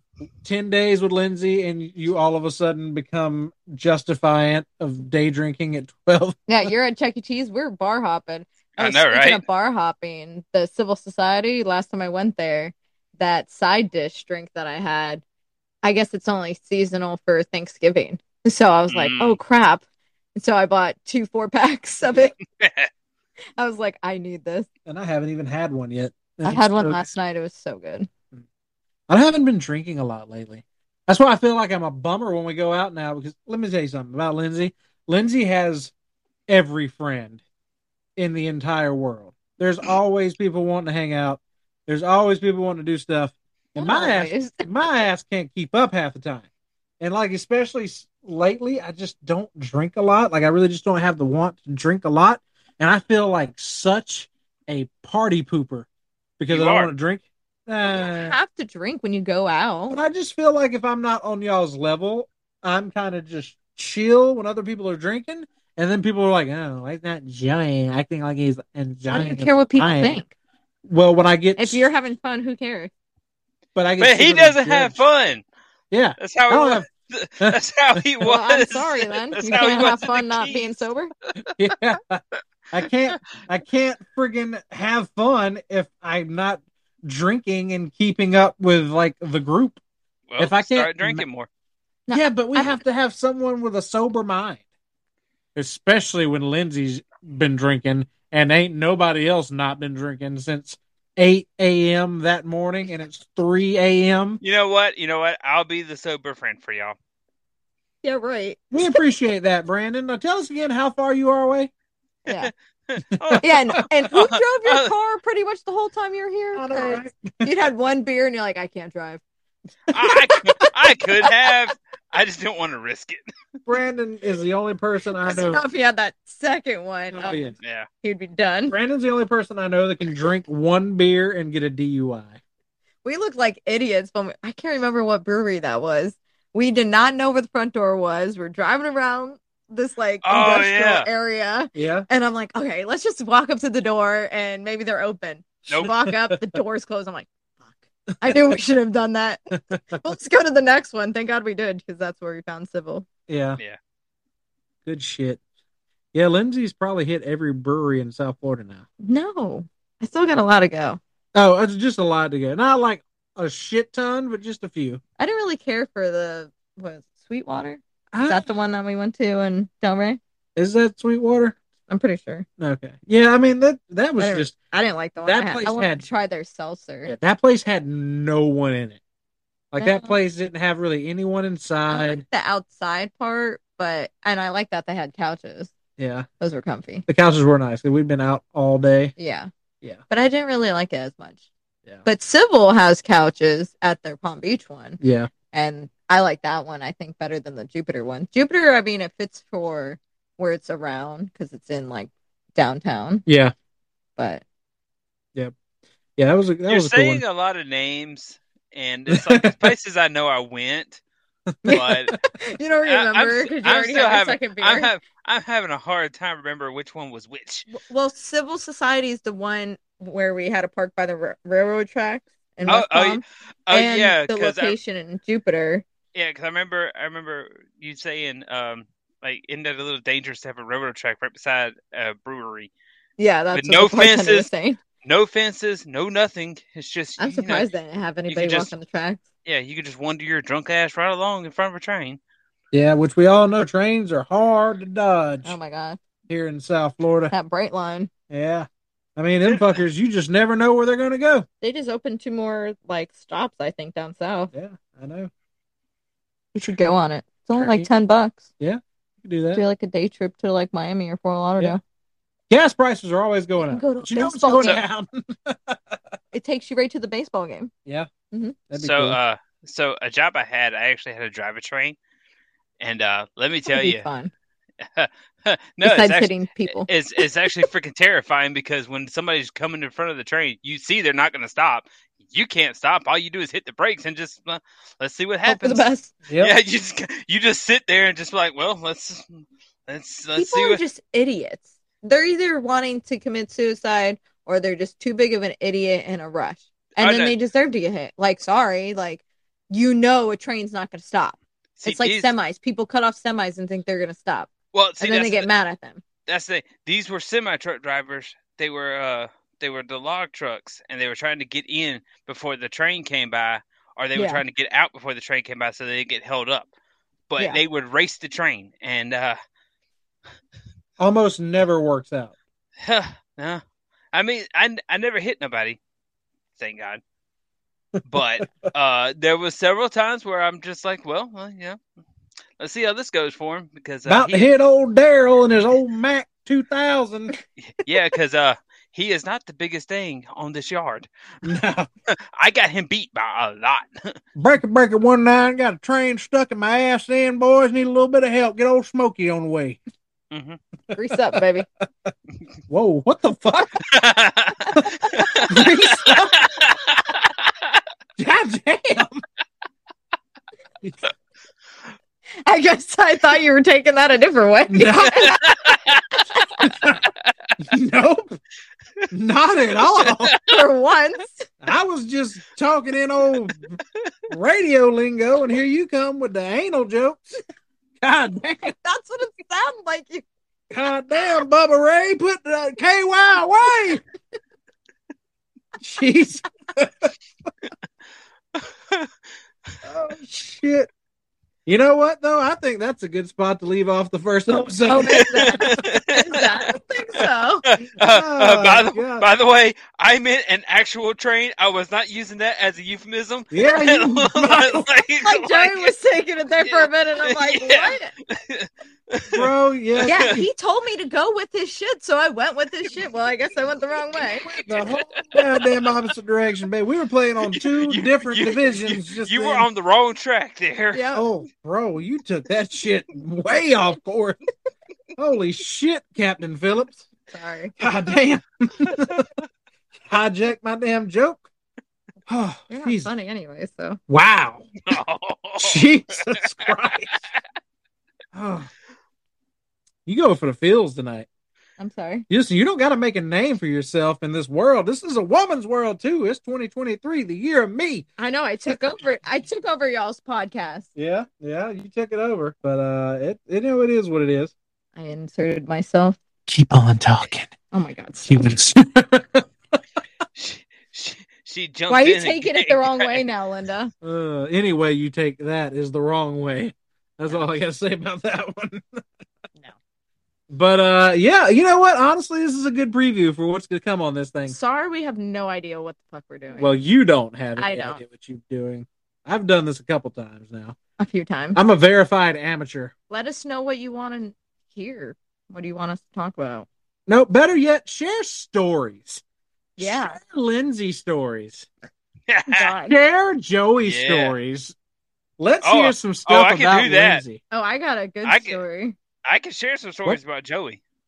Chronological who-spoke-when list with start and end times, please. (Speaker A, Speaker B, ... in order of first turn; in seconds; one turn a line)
Speaker A: 0.4-6.7
Speaker B: 6.5-15.2
Speaker C: 8.8-9.4
Speaker B: 15.8-19.8
Speaker C: 18.9-19.4
Speaker B: 20.4-22.4
Speaker C: 22.6-22.9
Speaker B: 23.6-24.7
Speaker A: 24.9-27.0
Speaker B: 26.4-28.1
Speaker A: 29.1-35.9
Speaker A: 36.5-37.4
Speaker A: 38.2-46.4
Speaker B: 43.8-44.6
Speaker A: 47.0-55.9
Speaker A: 56.4-58.4
Speaker C: 56.5-56.9
Speaker B: 57.8-60.0
Speaker A: 59.9-70.2
Speaker B: 69.1-70.3
Speaker A: 70.9-71.8
Speaker B: 71.6-72.9
Speaker A: 73.8-75.0
Speaker C: 74.0-75.4
Speaker A: 75.9-76.9
Speaker C: 76.2-80.8
Speaker A: 77.4-78.0
Speaker B: 78.2-81.1
Speaker A: 81.6-89.8
Speaker C: 90.3-91.5
Speaker A: 90.4-91.2
Speaker B: 92.1-92.8
Speaker A: 92.1-94.6
Speaker A: 95.5-104.4
Speaker C: 104.4-107.0
Speaker B: 108.0-109.0
Speaker A: 108.7-111.7
Speaker B: 112.2-112.5
Speaker C: 112.4-114.9
Speaker A: 113.1-113.8
Speaker B: 113.4-119.2
Speaker A: 116.5-117.5
Speaker C: 119.9-123.2
Speaker B: 120.0-121.5
Speaker A: 123.7-125.6
Speaker B: 125.2-127.4
Speaker A: 127.1-127.5
Speaker C: 127.6-127.9
Speaker B: 128.0-128.8
Speaker A: 128.7-132.4
Speaker B: 133.0-153.1
Speaker C: 140.2-141.1
Speaker A: 141.7-142.1
Speaker A: 146.0-146.6
Speaker A: 149.7-150.1
Speaker A: 153.3-153.6
Speaker A: 154.8-155.4
Speaker A: 156.1-158.8
Speaker B: 159.0-161.0
Speaker A: 161.3-165.0
Speaker B: 165.2-170.2
Speaker A: 168.1-168.5
Speaker A: 170.6-171.5
Speaker B: 171.9-172.4
Speaker A: 172.6-174.5
Speaker B: 174.2-177.1
Speaker A: 175.2-176.1
Speaker A: 177.1-179.0
Speaker A: 179.7-182.2
Speaker B: 179.8-180.2
Speaker B: 181.9-185.7
Speaker A: 186.0-186.3
Speaker B: 186.4-187.0
Speaker A: 187.1-189.1
Speaker B: 189.2-189.5
Speaker B: 190.1-191.4
Speaker B: 192.0-195.0
Speaker A: 195.0-195.3
Speaker B: 195.5-203.2
Speaker A: 203.2-203.5
Speaker B: 204.2-204.4
Speaker A: 206.2-207.2
Speaker C: 206.7-211.0
Speaker A: 209.1-209.7
Speaker A: 211.6-212.2
Speaker C: 211.7-212.2
Speaker B: 211.7-214.9
Speaker C: 212.8-217.7
Speaker B: 217.7-225.8
Speaker C: 222.7-224.8
Speaker C: 226.1-232.7
Speaker B: 233.2-234.8
Speaker C: 233.5-234.5
Speaker C: 235.0-237.7
Speaker B: 237.2-239.2
Speaker C: 238.3-238.7
Speaker C: 239.4-242.2
Speaker A: 242.7-245.6
Speaker B: 245.4-246.0
Speaker A: 246.3-247.3
Speaker B: 247.3-248.1
Speaker A: 248.3-251.5
Speaker B: 251.6-254.5
Speaker A: 254.5-255.3
Speaker B: 256.5-258.4
Speaker A: 257.6-257.9
Speaker A: 258.6-259.6
Speaker B: 259.5-261.8
Speaker A: 262.5-266.0
Speaker B: 263.7-264.8
Speaker B: 266.3-267.7
Speaker B: 268.3-268.6
Speaker A: 268.7-269.2
Speaker C: 268.8-272.0
Speaker C: 272.8-274.0
Speaker B: 273.7-274.3
Speaker C: 274.8-285.9
Speaker B: 275.8-276.9
Speaker B: 285.4-286.1
Speaker A: 286.3-286.6
Speaker C: 286.4-290.8
Speaker B: 290.4-306.0
Speaker C: 297.0-297.3
Speaker C: 301.8-302.3
Speaker C: 304.7-305.5
Speaker C: 306.3-316.7
Speaker B: 314.1-314.4
Speaker C: 317.3-319.4
Speaker A: 321.0-322.3
Speaker C: 322.8-323.6
Speaker C: 324.1-325.8
Speaker C: 326.6-327.0
Speaker C: 328.1-331.8
Speaker C: 332.6-334.5
Speaker A: 334.1-337.3
Speaker C: 337.6-341.5
Speaker A: 341.4-341.9
Speaker C: 342.1-344.2
Speaker A: 344.3-349.8
Speaker C: 350.3-350.6
Speaker B: 350.9-351.6
Speaker A: 352.7-353.9
Speaker C: 353.9-355.5
Speaker B: 354.8-356.3
Speaker A: 355.5-356.3
Speaker C: 356.1-357.3
Speaker A: 358.2-359.2
Speaker B: 362.4-365.5
Speaker A: 364.7-365.3
Speaker C: 365.1-366.0
Speaker A: 366.6-367.1
Speaker A: 367.6-368.2
Speaker A: 369.1-370.3
Speaker C: 370.0-370.6
Speaker B: 370.4-371.5
Speaker A: 371.6-373.8
Speaker A: 374.3-377.4
Speaker A: 378.0-378.7
Speaker B: 378.6-380.2
Speaker A: 380.7-384.0
Speaker A: 385.8-387.1
Speaker C: 388.6-389.1
Speaker A: 389.8-390.9
Speaker A: 391.6-395.6
Speaker B: 394.9-397.7
Speaker C: 395.2-396.7
Speaker C: 397.7-405.9
Speaker A: 398.0-399.3
Speaker A: 403.5-404.9
Speaker B: 405.2-408.1
Speaker C: 406.6-410.4
Speaker A: 409.3-410.4
Speaker B: 410.0-414.5
Speaker A: 414.5-419.6
Speaker C: 414.5-415.9
Speaker C: 417.5-421.1
Speaker B: 420.9-421.2
Speaker A: 421.1-424.4
Speaker A: 425.2-427.1
Speaker B: 427.3-427.8
Speaker A: 427.8-429.2
Speaker A: 430.0-431.4
Speaker A: 432.3-433.1
Speaker B: 432.7-434.0
Speaker A: 434.1-434.7
Speaker C: 434.8-435.8
Speaker A: 435.6-437.2
Speaker A: 438.3-438.7
Speaker A: 440.1-441.3
Speaker B: 441.8-442.2
Speaker A: 442.3-448.1
Speaker B: 448.2-450.9
Speaker A: 450.9-454.5
Speaker B: 454.9-456.2
Speaker A: 456.5-457.5
Speaker B: 457.7-458.3
Speaker A: 458.2-459.8
Speaker C: 460.4-463.2
Speaker B: 461.9-463.9
Speaker A: 464.0-469.0
Speaker A: 470.5-474.6
Speaker B: 474.4-476.8
Speaker A: 476.6-480.8
Speaker B: 477.6-478.0
Speaker B: 481.0-481.6
Speaker A: 481.5-482.9
Speaker B: 483.1-486.7
Speaker A: 487.1-489.2
Speaker B: 489.8-490.2
Speaker A: 489.8-491.7
Speaker C: 492.3-492.7
Speaker B: 492.5-492.9
Speaker A: 492.9-494.7
Speaker C: 493.8-494.3
Speaker A: 495.4-497.4
Speaker C: 495.6-497.2
Speaker B: 497.5-499.0
Speaker C: 498.2-498.6
Speaker C: 499.2-500.8